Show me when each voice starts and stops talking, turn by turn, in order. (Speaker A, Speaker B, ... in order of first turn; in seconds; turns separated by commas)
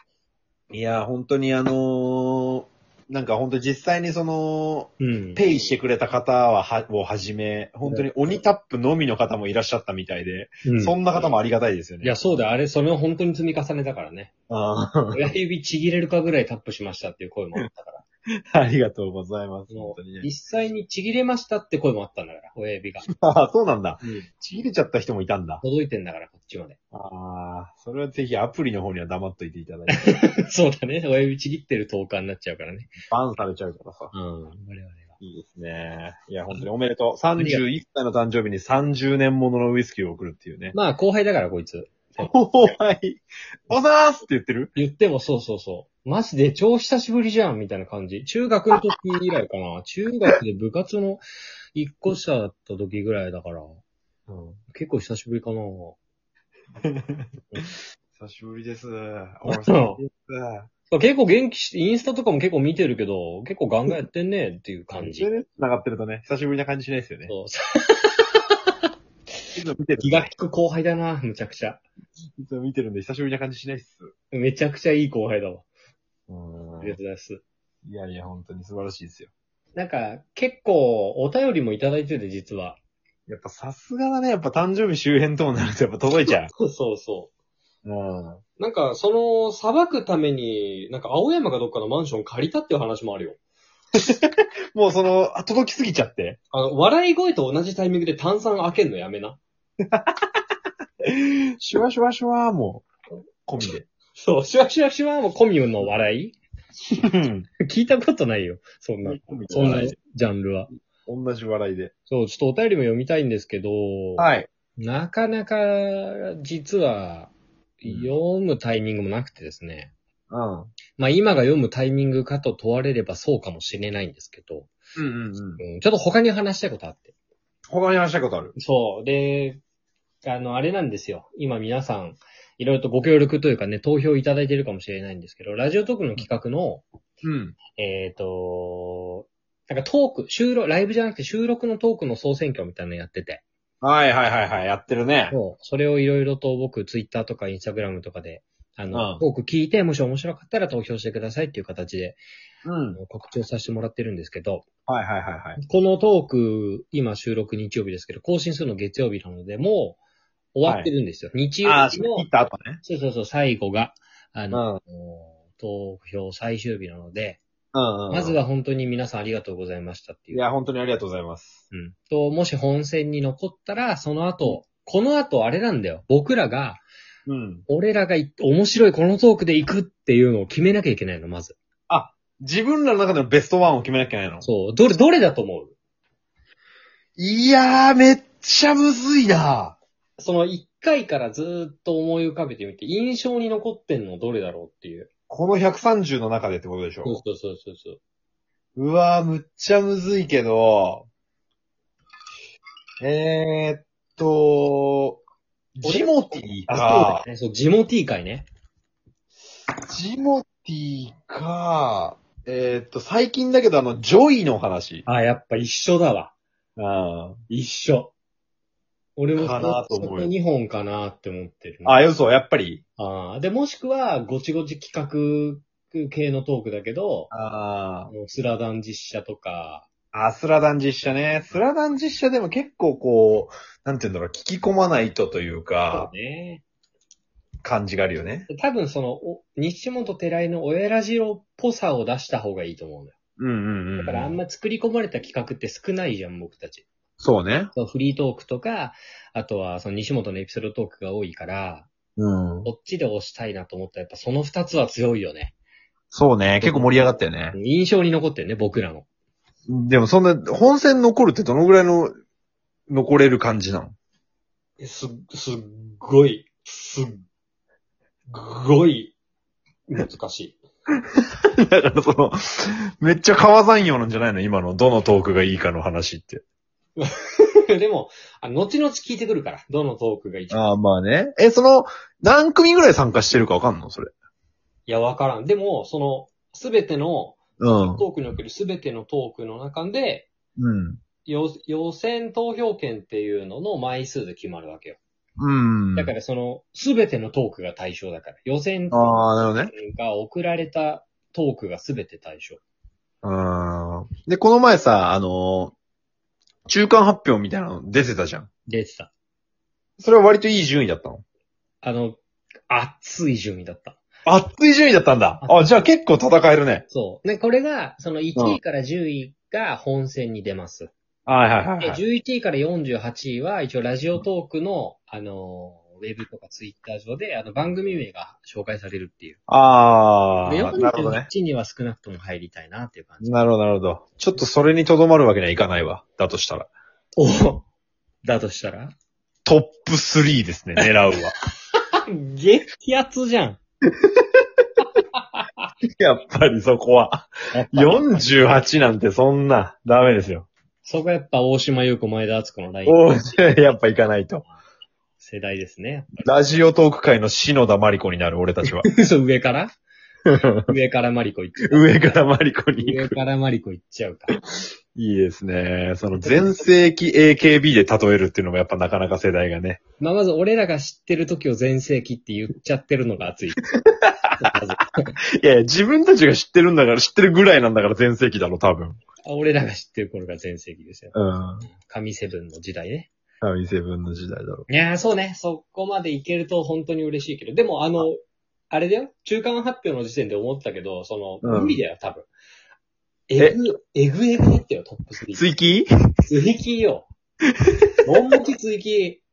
Speaker A: 0.7-12.2, Speaker B: 5.0-5.4, Speaker B: 10.6-10.9, Speaker B: 12.0-14.3, Speaker A: 14.5-15.3, Speaker B: 15.1-18.0, Speaker A: 18.5-20.3, Speaker B: 19.7-23.1, Speaker A: 23.1-25.6, Speaker B: 24.0-24.3, Speaker B: 25.6-26.8, Speaker A: 26.9-30.2, Speaker B: 29.9-32.9, Speaker A: 33.1-34.1, Speaker B: 34.1-35.1, Speaker A: 35.2-40.8, Speaker B: 37.4-37.6, Speaker B: 40.7-42.7, Speaker A: 42.2-44.7, Speaker B: 44.8-51.2, Speaker B: 51.7-53.8, Speaker A: 54.3-54.6, Speaker B: 54.7-56.0, Speaker A: 56.8-57.2, Speaker A: 58.1-60.7, Speaker B: 59.5-60.0, Speaker B: 60.9-65.3, Speaker A: 64.9-67.3, Speaker B: 67.3-68.5, Speaker A: 69.5-70.3, Speaker B: 70.0-71.8, Speaker A: 72.4-74.1, Speaker B: 74.3-75.7, Speaker A: 76.3-77.0, Speaker B: 76.8-77.4, Speaker A: 77.8-79.3, Speaker B: 79.7-82.8, Speaker A: 83.3-86.5, Speaker B: 86.3-87.3, Speaker A: 87.8-88.4, Speaker B: 88.6-93.4, Speaker A: 94.0-96.4, Speaker B: 96.5-99.4, Speaker A: 101.0-102.9, Speaker A: 103.5-103.9, Speaker B: 104.2-106.4, Speaker A: 106.9-107.5, Speaker B: 107.6-110.7, Speaker A: 109.0-110.0, Speaker A: 111.0-111.9, Speaker B: 112.1-119.9, Speaker A: 114.2-114.5, Speaker A: 120.3-120.7, Speaker B: 121.0-124.7, Speaker A: 125.0-125.6, Speaker B: 125.6-127.1, Speaker A: 127.7-128.5, Speaker B: 128.6-129.6, Speaker B: 130.2-136.8, Speaker A: 137.2-137.6, Speaker B: 137.8-143.4, Speaker A: 143.8-145.4, Speaker B: 145.3-152.2, Speaker A: 148.9-149.2, Speaker A: 152.6-153.0, Speaker B: 152.9-154.7, Speaker A: 154.9-155.6, Speaker B: 155.6-160.0, Speaker B: 160.5-162.3, Speaker A: 160.6-160.9, Speaker A: 161.6-162.8, Speaker B: 162.8-167.4, Speaker A: 164.5-164.8, Speaker A: 167.7-168.4, Speaker B: 168.1-170.4, Speaker A: 170.3-171.6, Speaker B: 171.7-176.8, Speaker A: 177.3-177.6, Speaker B: 177.7-181.6, Speaker A: 181.9-184.5, Speaker B: 184.4-185.7, Speaker A: 187.2-189.8, Speaker B: 190.2-195.1, Speaker A: 195.3-197.2, Speaker B: 197.0-198.0, Speaker A: 198.8-201.1, Speaker A: 203.0-205.2, Speaker A: 205.8-207.2, Speaker B: 205.8-208.5, Speaker A: 209.8-215.1, Speaker B: 215.1-216.3, Speaker A: 216.8-217.4, Speaker B: 217.5-218.1, Speaker B: 219.2-222.0, Speaker A: 219.3-220.3, Speaker A: 221.8-222.8, Speaker B: 223.0-227.3, Speaker A: 227.3-228.1, Speaker B: 228.1-229.9, Speaker A: 230.1-236.1, Speaker B: 235.9-236.6, Speaker A: 237.6-238.5, Speaker B: 238.5-243.1, Speaker A: 243.4-244.4, Speaker B: 244.0-246.8, Speaker A: 247.2-247.7, Speaker B: 247.7-251.9, Speaker A: 252.2-252.7, Speaker B: 252.6-255.5, Speaker A: 256.1-257.6, Speaker B: 256.6-259.1, Speaker A: 259.7-262.1, Speaker A: 262.9-263.9, Speaker B: 264.8-267.2, Speaker B: 268.3-269.1, Speaker B: 269.9-270.6, Speaker A: 271.6-276.4, Speaker B: 277.0-280.7, Speaker A: 280.5-284.1, Speaker B: 284.9-290.3, Speaker A: 287.6-288.0, Speaker A: 290.6-291.0, Speaker B: 291.2-295.0, Speaker A: 295.4-296.1, Speaker B: 295.9-302.6, Speaker A: 298.9-299.7, Speaker A: 303.2-305.7, Speaker A: 306.7-308.5, Speaker B: 308.7-309.1, Speaker A: 310.0-311.2, Speaker B: 311.8-314.0, Speaker A: 314.2-316.8, Speaker B: 316.9-320.9, Speaker A: 321.2-322.0, Speaker B: 321.8-329.4, Speaker A: 329.5-331.3, Speaker B: 330.4-333.3, Speaker A: 333.2-336.7, Speaker B: 337.2-337.6, Speaker B: 338.2-338.9, Speaker A: 339.4-341.3, Speaker B: 342.1-343.6, Speaker B: 345.1-345.7, Speaker A: 346.0-350.5, Speaker B: 347.5-348.3, Speaker B: 350.8-353.8, Speaker A: 352.9-354.4, Speaker B: 355.2-356.3, Speaker A: 356.2-358.9, Speaker B: 358.8-359.7, Speaker A: 360.2-360.7, Speaker B: 360.6-362.2, Speaker A: 361.7-363.2, Speaker B: 362.8-364.3, Speaker A: 364.9-369.8, Speaker B: 366.2-366.6, Speaker B: 370.0-373.6, Speaker A: 373.8-374.5, Speaker B: 374.4-375.1, Speaker A: 375.4-379.0, Speaker B: 379.2-383.1, Speaker A: 381.1-381.7, Speaker A: 383.4-384.7, Speaker B: 384.7-388.2, Speaker B: 388.7-392.3, Speaker A: 391.4-391.8, Speaker B: 393.3-395.5, Speaker A: 395.3-395.9, Speaker B: 396.2-397.1, Speaker B: 398.0-399.2